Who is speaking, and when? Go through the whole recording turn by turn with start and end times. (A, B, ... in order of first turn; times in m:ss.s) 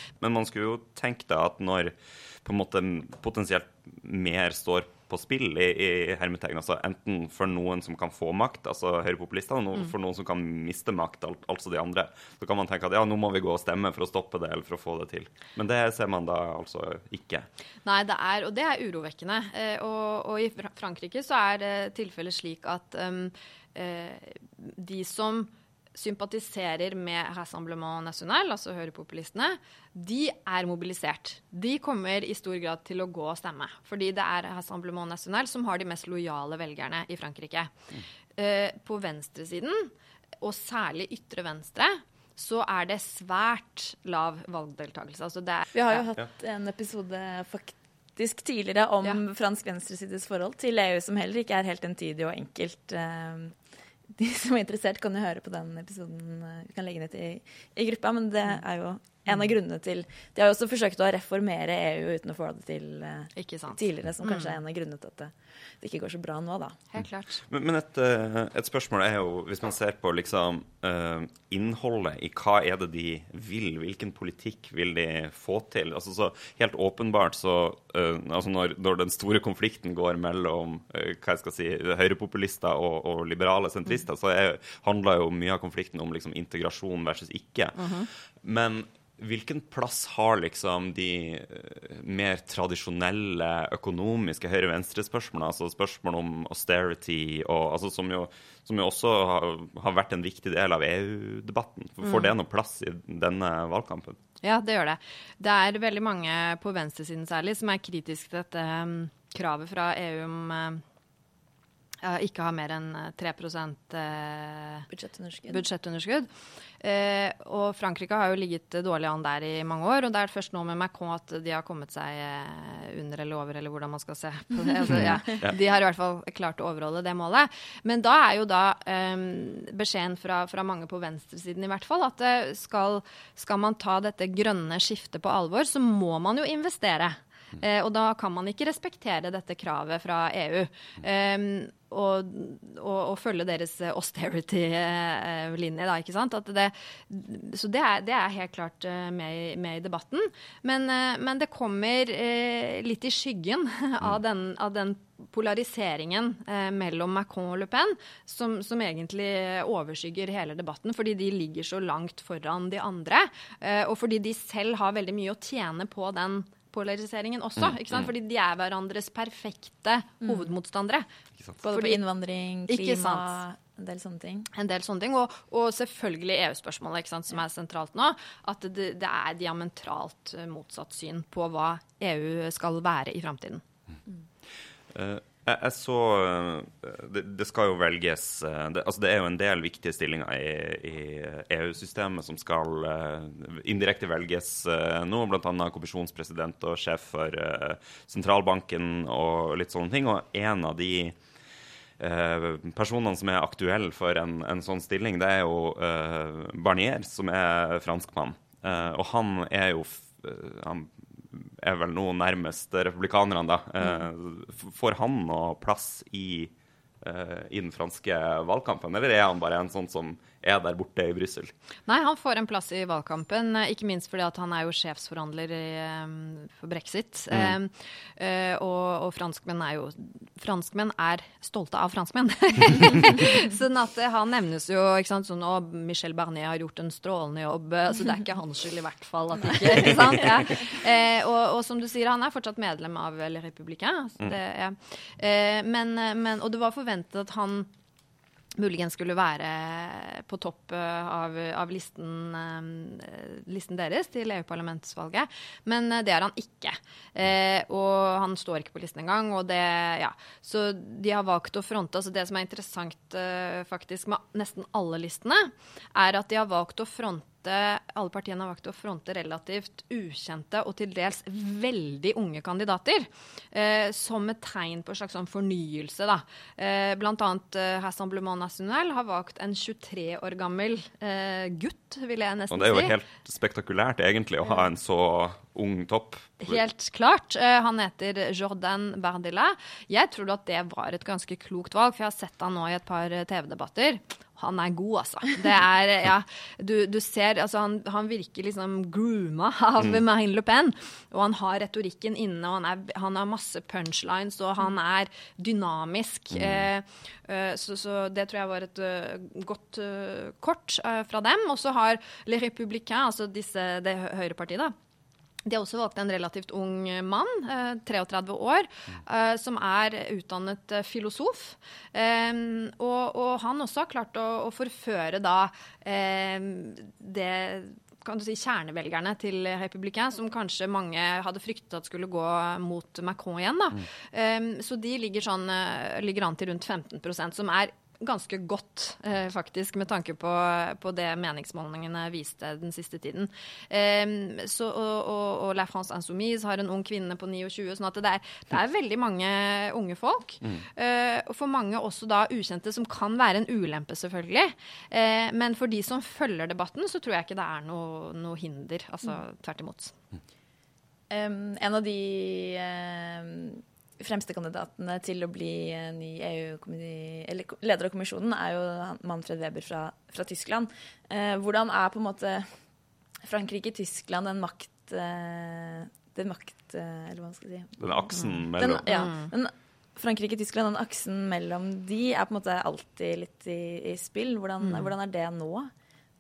0:00.2-0:17.5 A
0:17.8-0:37.7 B
0:38.4-0:46.0 B
0:45.7-0:53.6 C
0:54.2-1:06.8 C
1:03.4-1:04.6 B
1:06.9-1:07.4 B
1:07.5-1:44.2 A
1:27.8-1:28.1 B
1:44.4-1:50.8 B
1:52.0-1:54.9 B
1:54.9-1:55.6 C
1:55.5-1:56.3 B
1:56.8-2:51.1 B
2:51.6-2:54.5 C
2:51.7-2:52.0 B
2:52.7-2:53.4 B
2:54.5-3:03.6 B
3:04.9-3:21.2 A
3:22.0-3:41.5 A
3:41.9-4:07.7 B
4:08.6-4:43.0 B
4:42.5-4:46.6 A
4:46.4-5:14.8 B
5:06.4-5:06.6 A
5:15.4-6:00.0 B
6:01.1-6:12.5 C
6:13.2-6:25.7 C
6:17.8-6:18.9 A
6:18.9-6:19.3 B
6:24.6-6:24.9 B